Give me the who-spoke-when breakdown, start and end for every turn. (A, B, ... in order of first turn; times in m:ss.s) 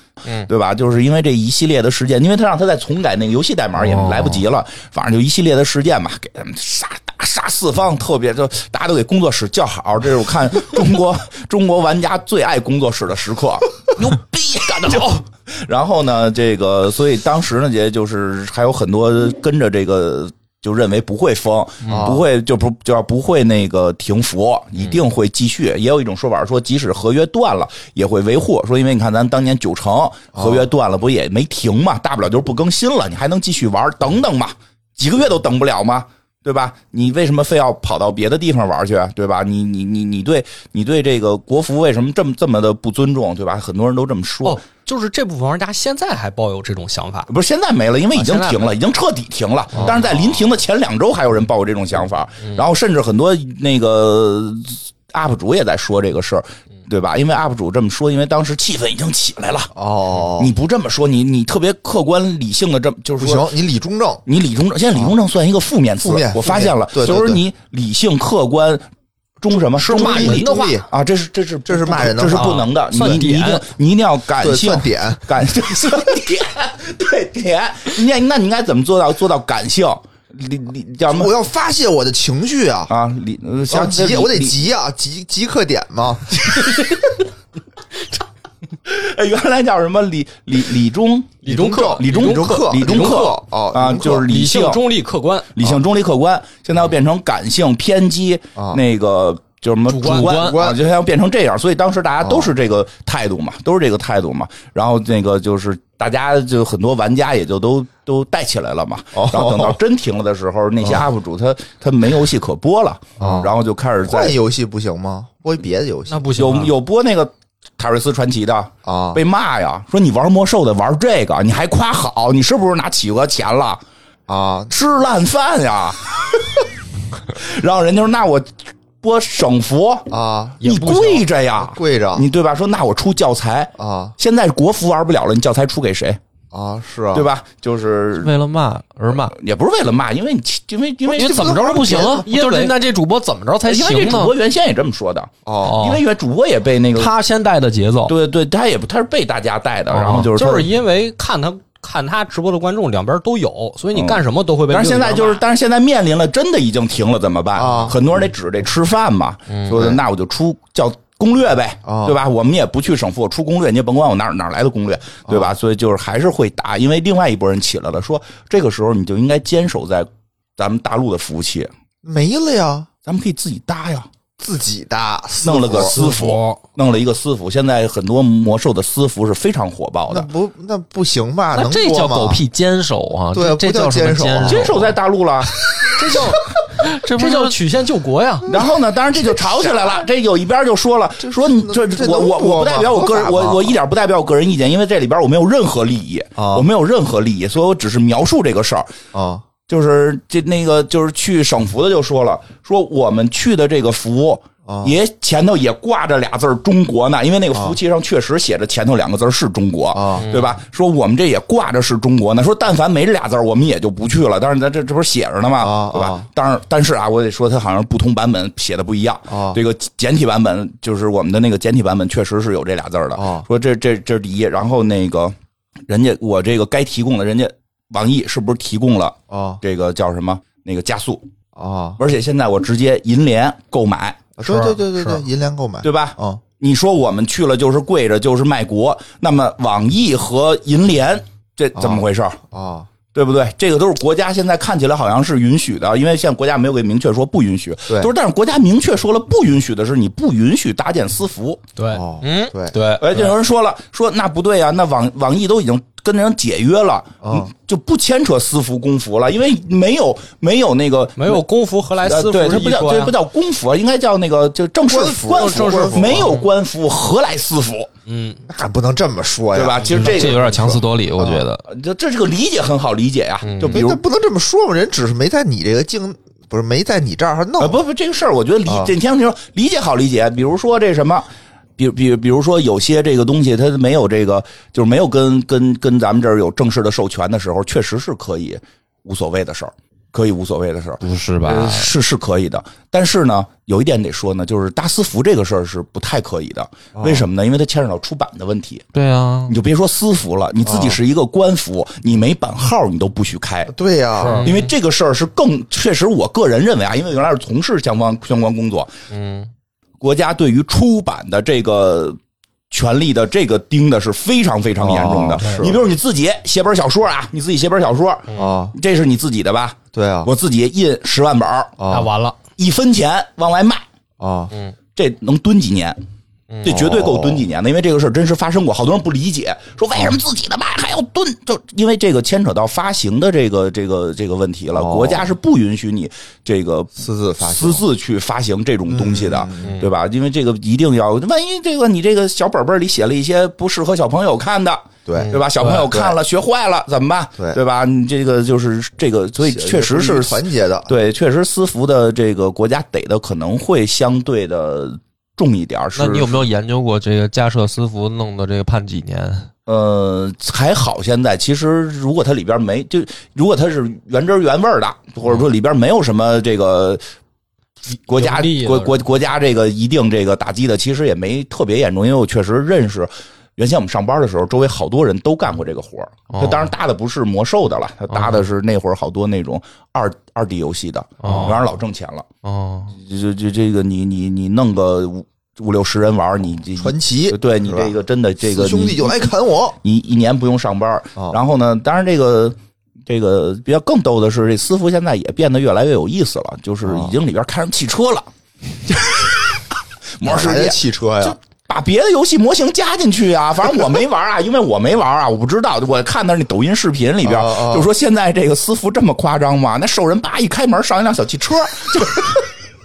0:00.2-0:00.5 A
0:00.5-0:44.6 B
0:03.8-0:04.4 A
0:14.2-0:15.2 C
0:21.8-0:22.1 A
0:21.9-0:22.2 D
0:30.4-0:30.6 D
0:44.4-0:47.3 C
0:47.3-0:59.7 B
0:48.1-0:48.7 C
0:49.8-0:50.3 C
0:59.7-1:00.6 D
1:00.4-1:03.5 B
1:03.2-1:04.2 D
1:04.3-1:08.9 B
1:06.0-1:07.4 D
1:09.4-1:21.3 B
1:09.8-1:10.9 D
1:09.8-1:10.8 C
1:11.7-1:13.0 D
1:12.4-1:13.6 C
1:14.4-1:15.4 D
1:21.1-1:22.9 D
1:22.9-1:24.6 B
1:23.7-1:26.7 D
1:28.8-1:34.8 B
1:31.4-1:33.4 C
1:31.5-1:34.3 D
1:34.2-1:35.7 C
1:35.6-1:54.4 B
1:39.9-1:40.3 C
1:40.0-1:40.6 A
1:40.1-1:40.8 D
1:42.2-1:42.5 D
1:49.1-1:49.8 D
1:53.2-1:53.5 D
1:54.0-1:56.3 D
1:56.1-1:56.7 C
1:56.4-2:03.8 B
1:58.8-1:59.2 D
2:04.3-2:04.7 D
2:04.7-2:06.7 B
2:07.3-2:10.1 B
2:10.1-2:10.6 D
2:10.6-2:11.3 C
2:10.6-2:16.2 B
2:11.6-2:12.2 D
2:13.8-2:14.2 D
2:16.5-2:17.3 D
2:17.1-2:18.3 B
2:18.2-2:19.4 A
2:19.2-2:22.0 B
2:21.1-2:22.3 D
2:21.2-2:24.4 A
2:21.8-2:22.8 C
2:23.7-2:27.1 B
2:25.5-2:25.8 D
2:25.6-2:26.0 A
2:27.0-2:28.1 A
2:28.1-2:30.7 B
2:29.9-2:30.3 A
2:30.1-2:35.4 C
2:33.9-2:51.7 B
2:37.6-2:38.1 D
2:39.5-2:39.8 A
2:39.7-2:40.0 D
2:41.9-2:42.2 D
2:45.3-2:45.5 D
2:52.0-2:52.9 D
2:53.1-2:54.1 B
2:54.4-2:56.0 D
2:55.4-3:00.3 B
2:55.8-2:56.6 C
3:00.1-3:02.4 D
3:01.5-3:05.0 A
3:03.3-3:04.7 D
3:04.4-3:05.9 B
3:06.0-3:08.5 C
3:06.9-3:07.6 A
3:08.5-3:18.9 B
3:09.4-3:10.0 D
3:11.2-3:13.8 D
3:16.4-3:16.7 D
3:19.1-3:19.4 D
3:19.7-3:45.4 B
3:24.6-3:25.0 D
3:29.9-3:30.3 D
3:30.2-3:30.6 A
3:35.6-3:36.3 D
3:39.3-3:39.6 D
3:43.2-3:43.4 D
3:45.9-3:51.3 B
3:49.3-3:49.6 D
3:51.6-3:52.0 D
3:52.0-3:54.3 B
3:54.4-3:56.4 D
3:54.4-3:55.2 C
3:55.8-4:02.4 B
4:01.8-4:02.9 D
4:03.1-4:11.6 B
4:11.8-4:12.0 C
4:11.9-4:12.8 D
4:12.2-4:13.3 A
4:13.0-4:21.4 B
4:17.2-4:17.5 D
4:21.2-4:23.2 C
4:22.0-4:27.9 B
4:24.8-4:26.3 D
4:25.3-4:26.3 C
4:28.1-4:28.4 C
4:28.5-4:31.4 D
4:29.5-4:30.4 B
4:29.9-4:31.6 A
4:31.7-4:34.0 B
4:33.4-4:33.8 A
4:33.6-4:37.8 D
4:37.6-4:41.3 B
4:38.6-4:38.9 D
4:41.8-4:58.9 B
4:51.0-4:51.9 A
4:57.0-4:57.3 D
4:58.9-4:59.6 A
4:59.5-5:03.7 B
5:00.6-5:01.0 D
5:03.7-5:04.5 D
5:04.2-5:04.7 A
5:04.4-5:08.9 B
5:09.1-5:09.5 A
5:10.0-5:12.2 B
5:12.7-5:21.8 B
5:14.8-5:15.8 D
5:15.4-5:15.7 C
5:18.4-5:18.8 D
5:19.9-5:20.3 D
5:21.8-5:22.1 D
5:21.9-5:22.4 C
5:22.6-5:23.8 B
5:24.2-5:24.5 D
5:25.0-5:26.0 B
5:26.5-5:26.9 A
5:26.6-5:56.4 B
5:26.7-5:27.4 D
5:34.7-5:35.3 D
5:37.0-5:37.8 D
5:38.9-5:39.7 D
5:39.6-5:39.9 A
5:45.1-5:46.2 D
5:49.4-5:50.9 D
5:56.0-5:59.5 A
5:59.7-6:07.0 B
6:08.0-6:22.3 B
6:08.2-6:09.0 C
6:16.3-6:16.7 A
6:18.1-6:18.4 A
6:21.2-6:21.6 A
6:22.4-6:23.0 A
6:22.9-6:29.3 B
6:26.8-6:29.8 D
6:29.8-6:32.6 B
6:33.1-6:38.3 B
6:36.8-6:37.1 D
6:39.0-6:39.4 B
6:40.2-6:52.5 B
6:40.2-6:41.4 D
6:47.2-6:47.9 D